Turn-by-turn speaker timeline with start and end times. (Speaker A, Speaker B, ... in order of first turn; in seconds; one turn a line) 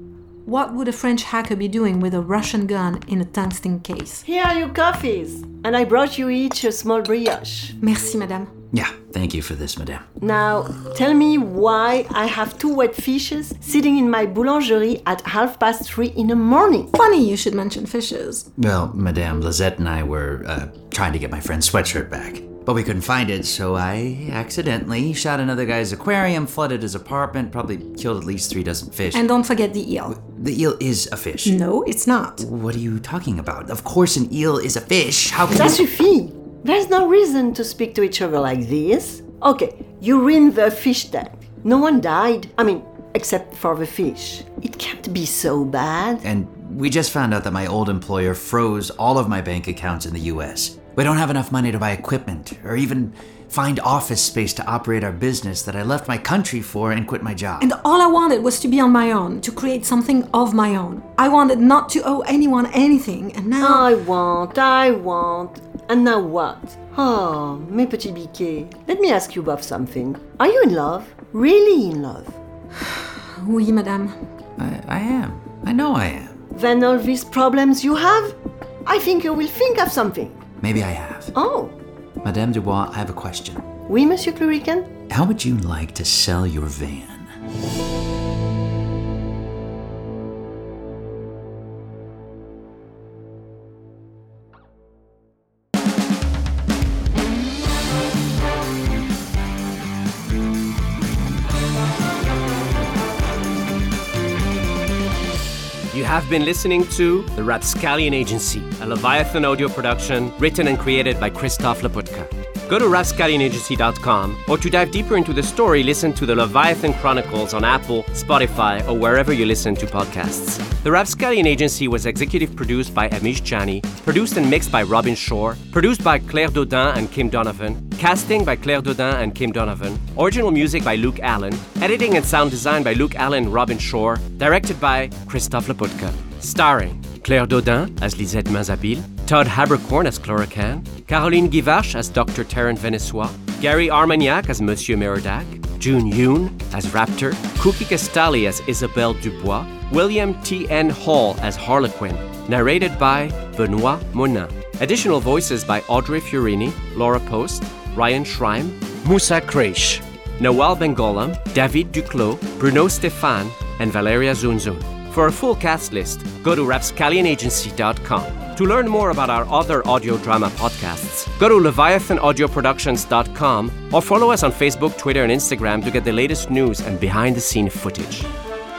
Speaker A: 0.4-4.2
Speaker B: 4.2-7.7
Speaker A: 7.8-8.5
Speaker C: 8.7-10.1
Speaker B: 10.2-16.9
Speaker A: 16.9-18.5
Speaker C: 18.6-29.2
Speaker A: 29.1-30.2
Speaker C: 30.1-31.6
Speaker A: 31.4-32.4
Speaker C: 32.4-35.8
Speaker B: 35.5-46.2
Speaker C: 46.2-57.7
Speaker A: 57.6-63.9
Speaker B: 63.6-72.4
Speaker A: 72.8-74.2
Speaker C: 74.6-76.4
Speaker B: 76.5-80.4
Speaker C: 80.6-81.3
Speaker B: 81.3-81.8
Speaker C: 82.2-83.7
Speaker B: 83.9-84.9
Speaker C: 85.1-87.3
Speaker D: 105.9-178.3